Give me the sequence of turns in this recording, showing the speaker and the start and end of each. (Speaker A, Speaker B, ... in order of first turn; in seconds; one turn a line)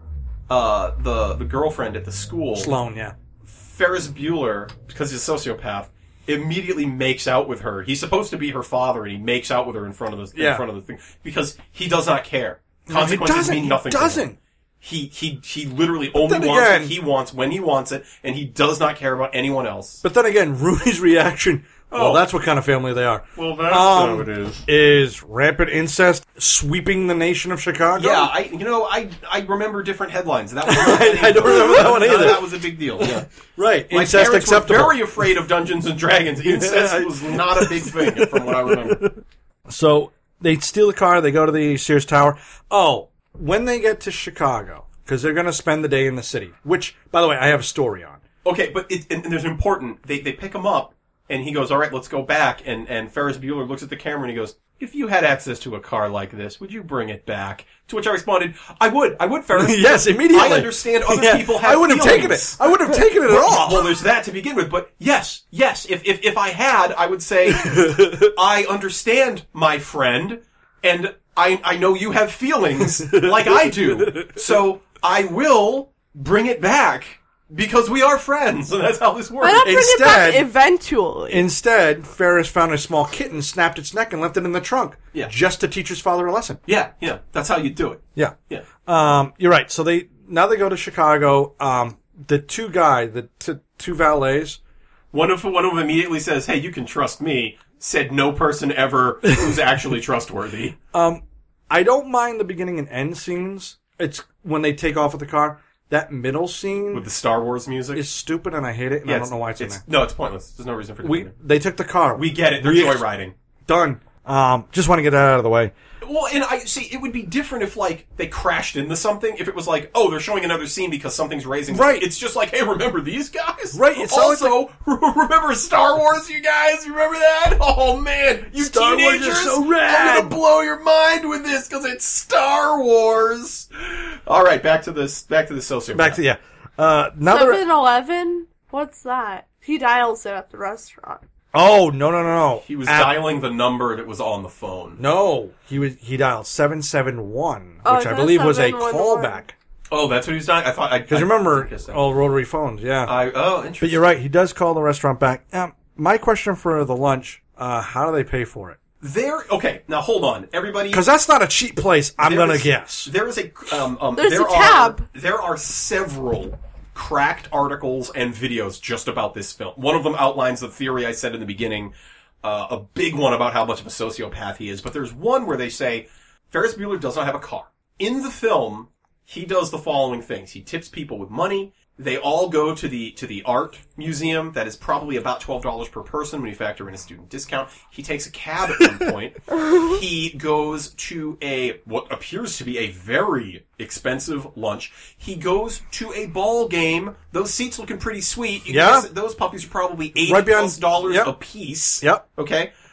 Speaker A: 0.5-2.7
Speaker B: 2.5-3.1
Speaker A: 3.5-14.3
Speaker B: 10.3-10.7
Speaker B: 12.9-14.4
Speaker A: 14.8-20.0
Speaker B: 16.1-16.9
Speaker B: 20.0-28.3
Speaker A: 21.9-22.2
Speaker A: 23.4-24.6
Speaker A: 28.0-33.3
Speaker B: 30.7-35.3
Speaker A: 33.9-39.1
Speaker B: 36.4-48.2
Speaker A: 48.4-79.7
Speaker B: 59.5-64.0
Speaker B: 67.5-68.3
Speaker B: 72.8-74.5
Speaker C: 79.4-81.5
Speaker B: 79.6-80.5
Speaker B: 81.3-86.6
Speaker A: 86.7-88.7
Speaker B: 88.2-94.6
Speaker A: 95.1-100.8
Speaker B: 100.9-107.1
Speaker A: 106.9-108.0
Speaker B: 107.9-109.8
Speaker A: 109.1-111.3
Speaker B: 111.0-113.1
Speaker A: 112.2-113.3
Speaker B: 113.7-115.7
Speaker A: 116.0-136.2
Speaker B: 121.7-122.1
Speaker B: 123.7-124.6
Speaker B: 128.5-130.4
Speaker B: 135.9-137.6
Speaker C: 137.3-141.2
Speaker B: 141.5-143.2
Speaker A: 142.7-145.0
Speaker B: 145.0-149.6
Speaker C: 147.8-149.4
Speaker A: 149.9-152.0
Speaker B: 151.1-153.1
Speaker A: 153.1-154.1
Speaker B: 153.8-158.8
Speaker A: 159.0-161.1
Speaker B: 160.9-163.1
Speaker A: 162.2-171.9
Speaker C: 164.2-165.1
Speaker A: 172.4-202.7
Speaker C: 189.6-189.9
Speaker B: 198.7-199.1
Speaker B: 200.2-201.3